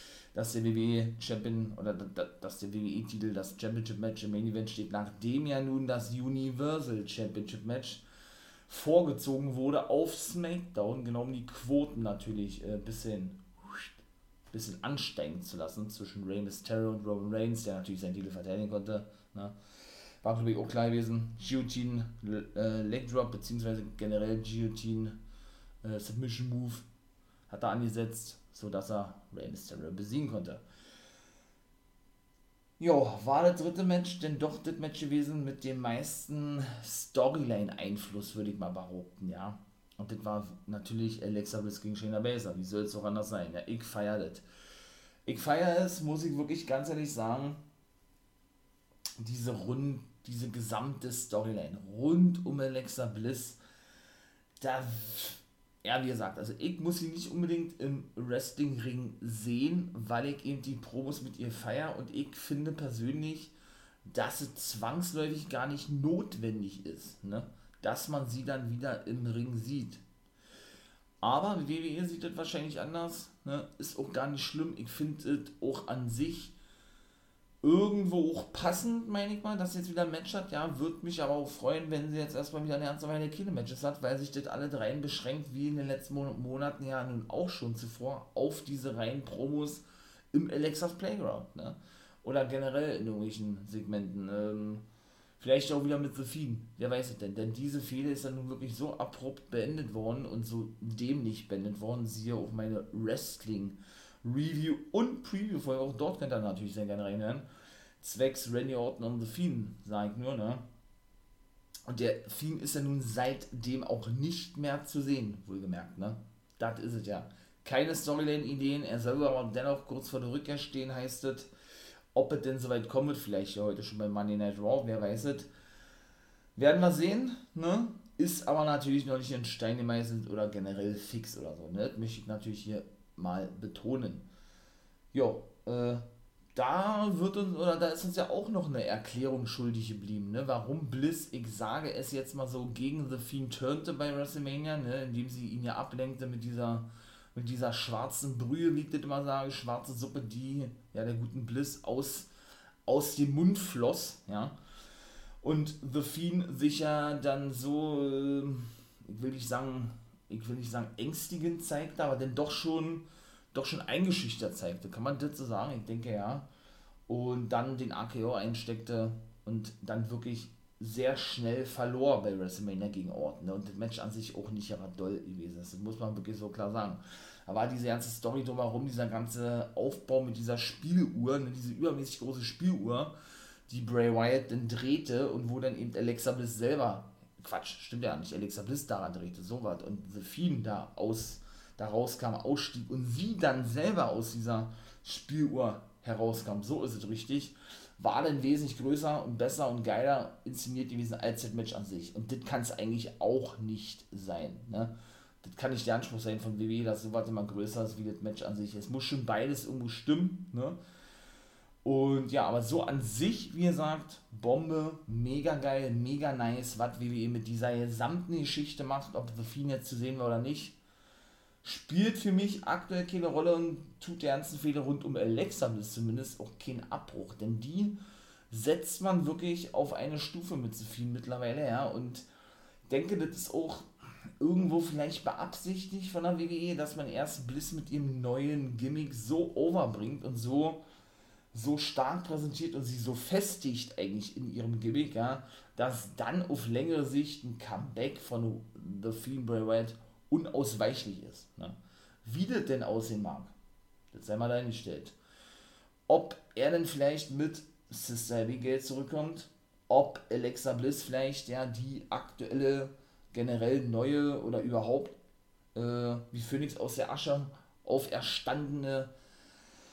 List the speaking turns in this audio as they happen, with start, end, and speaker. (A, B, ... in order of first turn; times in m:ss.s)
0:00.3-0:08.0 A
0:08.7-0:13.4 A
0:14.5-0:19.6 A
0:20.2-0:25.2 A
0:25.8-0:26.9 A
0:27.5-0:30.6 A
0:32.8-0:44.4 A
0:45.3-0:47.6 A
0:49.2-0:53.6 A
0:54.6-1:03.5 A
1:04.1-1:10.0 A
1:11.2-1:16.5 A
1:17.6-1:34.8 A
1:35.4-1:47.4 A
1:48.0-1:50.6 A
1:51.9-2:01.5 A
2:02.1-2:05.5 A
2:06.6-2:14.3 A
2:15.1-2:32.3 A
2:32.9-2:34.6 A
2:35.4-2:46.5 A
2:47.1-3:03.1 A
3:03.7-3:30.8 A
3:31.8-3:40.8 A
3:41.6-3:48.0 A
3:48.5-3:52.2 A
3:52.9-3:53.9 A
3:54.4-4:00.8 A
4:01.5-4:13.5 A
4:14.1-4:15.2 A
4:16.1-4:25.2 A
4:25.8-4:29.1 A